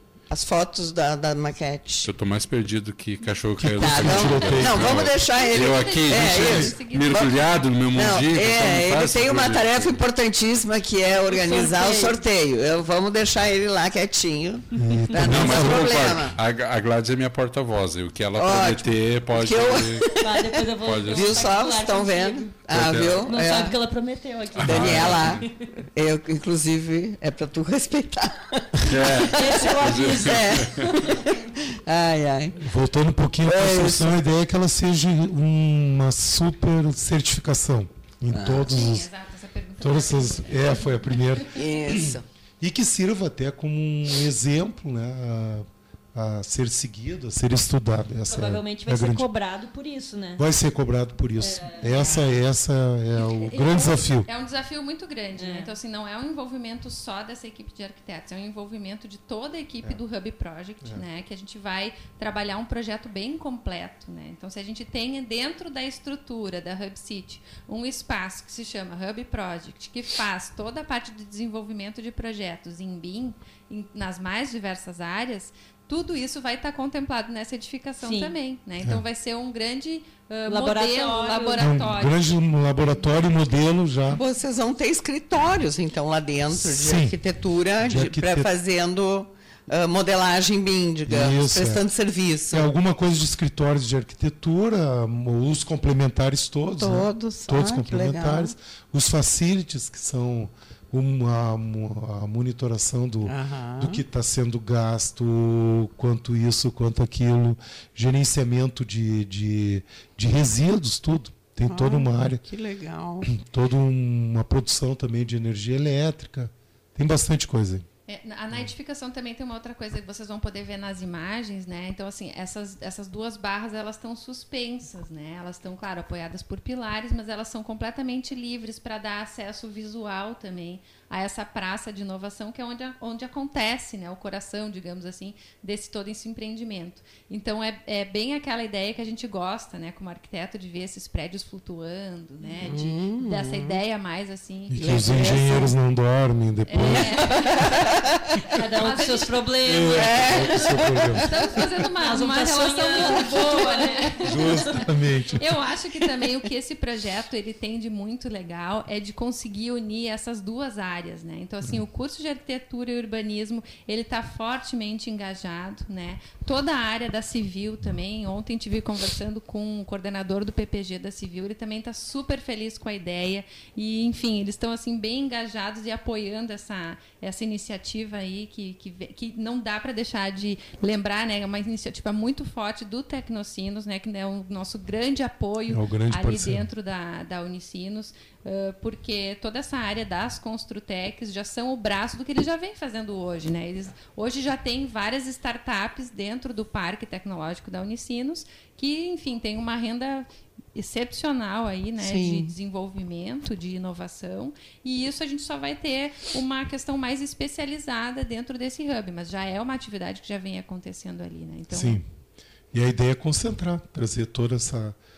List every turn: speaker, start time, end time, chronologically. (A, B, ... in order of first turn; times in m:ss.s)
0:00.3-0:02.1 A
0:02.0-0:10.0 B
0:03.6-0:05.1 C
0:03.8-0:07.3 A
0:05.5-0:07.6 D
0:07.9-0:16.4 A
0:11.3-0:12.2 E
0:14.7-0:16.2 C
0:15.1-0:20.1 B
0:18.4-0:23.8 A
0:20.2-0:22.6 E
0:20.8-0:21.4 B
0:22.7-0:23.3 B
0:23.2-0:25.7 E
0:24.6-0:25.4 B
0:24.6-0:32.6 A
0:28.8-0:31.0 B
0:29.2-0:31.2 E
0:32.6-0:39.1 C
0:33.4-0:34.2 A
0:38.3-0:38.7 A
0:38.7-0:41.4 D
0:39.8-0:49.3 C
0:41.5-0:42.2 A
0:48.3-0:50.4 E
0:50.4-0:54.3 C
0:51.4-0:52.1 E
0:53.4-1:22.4 D
0:55.4-0:55.7 E
1:18.0-1:18.4 E
1:20.5-1:21.7 E
1:21.6-1:24.2 C
1:24.1-1:32.7 A
1:26.5-1:27.2 C
1:27.8-1:28.5 C
1:31.1-1:31.8 C
1:32.5-1:52.4 C
1:36.8-1:38.5 A
1:43.2-1:44.0 A
1:51.6-1:53.3 A
1:53.2-1:57.8 C
1:58.1-2:25.4 D
2:22.6-2:23.8 A
2:24.7-2:27.3 C
2:24.8-2:25.7 A
2:26.6-2:27.9 D
2:26.8-2:28.5 A
2:28.6-2:30.3 E
2:28.8-2:29.3 D
2:29.6-2:31.3 C
2:29.9-2:31.4 A
2:31.2-2:34.8 D
2:31.9-2:34.6 E
2:34.2-2:35.5 C
2:35.4-3:32.0 D
3:05.7-3:06.7 C
3:22.0-3:22.5 A
3:31.7-3:32.0 C
3:32.7-3:35.0 C